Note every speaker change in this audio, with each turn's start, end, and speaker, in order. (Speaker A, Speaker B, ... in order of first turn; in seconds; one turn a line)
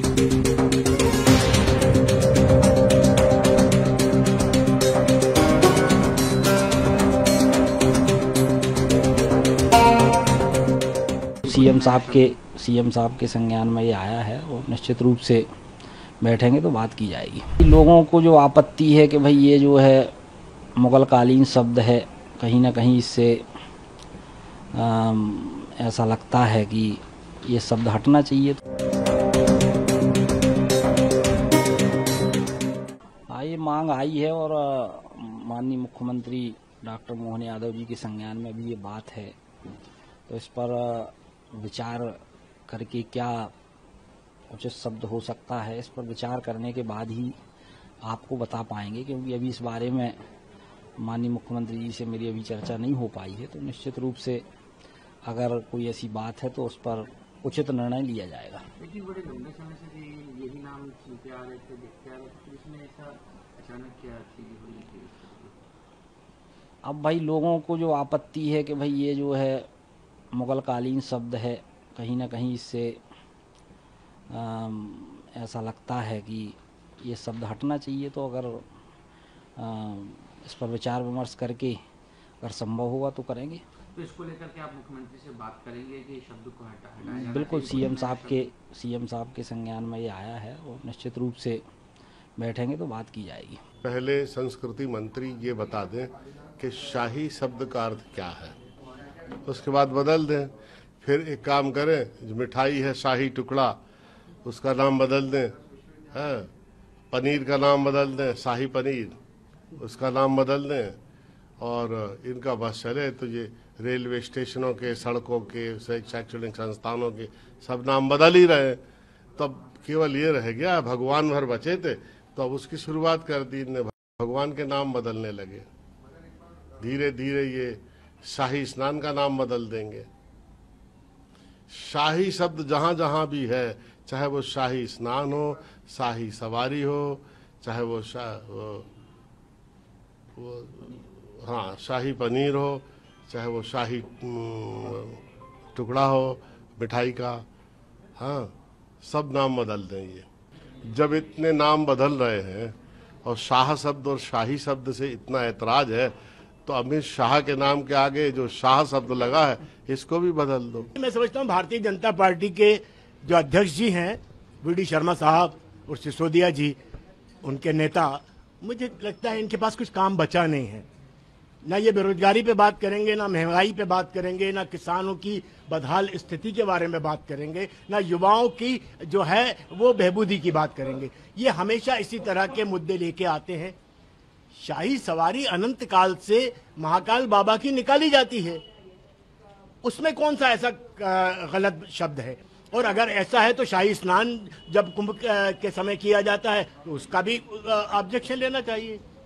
Speaker A: 11.4-12.3
Speaker B: 11.4-15.5
Speaker B: 16.2-20.1
Speaker B: 20.8-23.4
Speaker B: 24.7-28.6
Speaker B: 33.3-39.4
Speaker B: 40.3-43.5
Speaker B: 44.5-47.4
Speaker B: 48.0-50.1
Speaker B: 51.0-54.4
Speaker B: 55.2-58.6
Speaker A: 58.8-65.6
Speaker B: 66.8-69.7
Speaker B: 70.3-73.0
Speaker B: 74.3-78.7
Speaker B: 79.6-81.8
Speaker B: 82.4-83.6
Speaker A: 83.9-88.5
Speaker B: 87.1-91.6
Speaker B: 92.4-93.6
Speaker C: 93.8-98.6
Speaker C: 99.5-103.8
Speaker C: 104.4-105.5
Speaker C: 106.1-106.5
Speaker C: 107.1-109.2
Speaker C: 109.8-111.0
Speaker C: 111.6-118.8
Speaker C: 119.4-125.7
Speaker C: 126.8-130.1
Speaker C: 131.7-138.9
Speaker C: 140.3-145.2
Speaker C: 145.7-147.4
Speaker C: 148.2-150.3
Speaker C: 150.8-160.9
Speaker D: 160.9-166.8
Speaker D: 167.4-170.8
Speaker D: 171.6-183.8
Speaker D: 184.5-188.6
Speaker D: 189.8-199.0